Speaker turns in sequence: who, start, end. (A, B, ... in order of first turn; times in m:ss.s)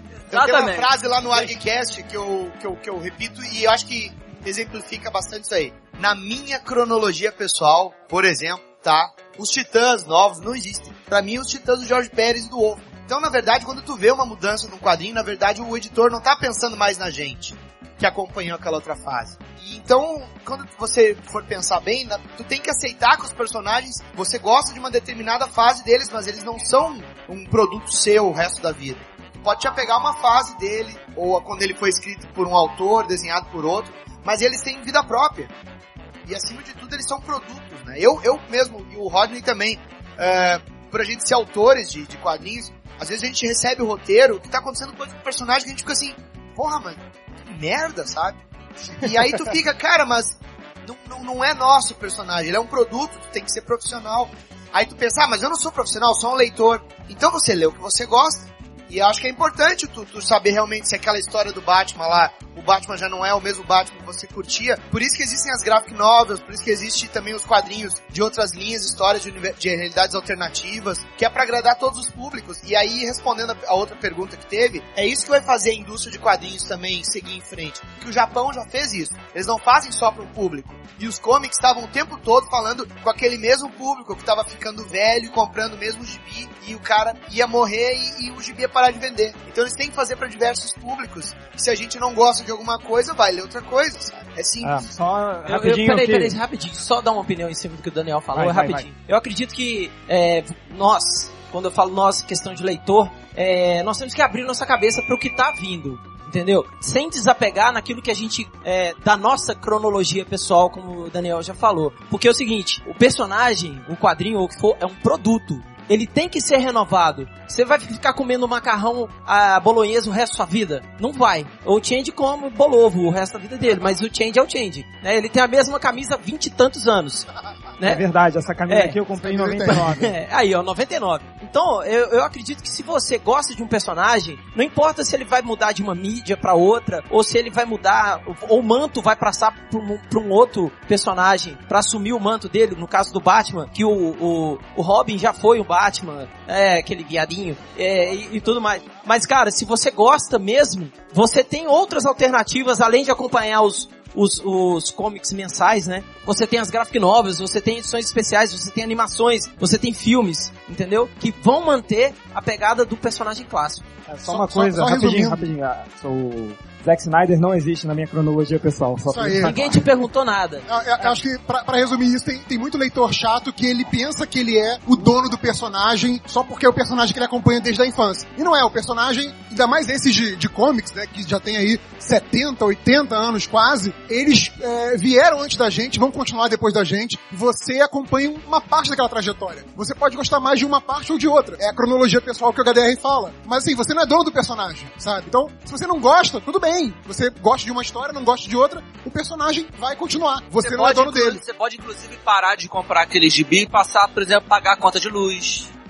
0:00.3-0:01.5 A
0:00.3-0:35.5 B
0:36.2-1:34.9 B
1:34.6-1:36.4 C
1:35.4-2:07.3 D
1:38.3-1:38.9 C
2:07.8-2:10.1 C
2:08.7-2:09.0 D
2:09.2-2:09.9 E
2:09.7-2:43.9 D
2:44.1-2:49.9 C
2:44.2-2:45.4 E
2:49.1-2:49.8 E
2:49.4-2:50.6 D
2:50.6-3:21.4 E
3:20.6-3:25.7 A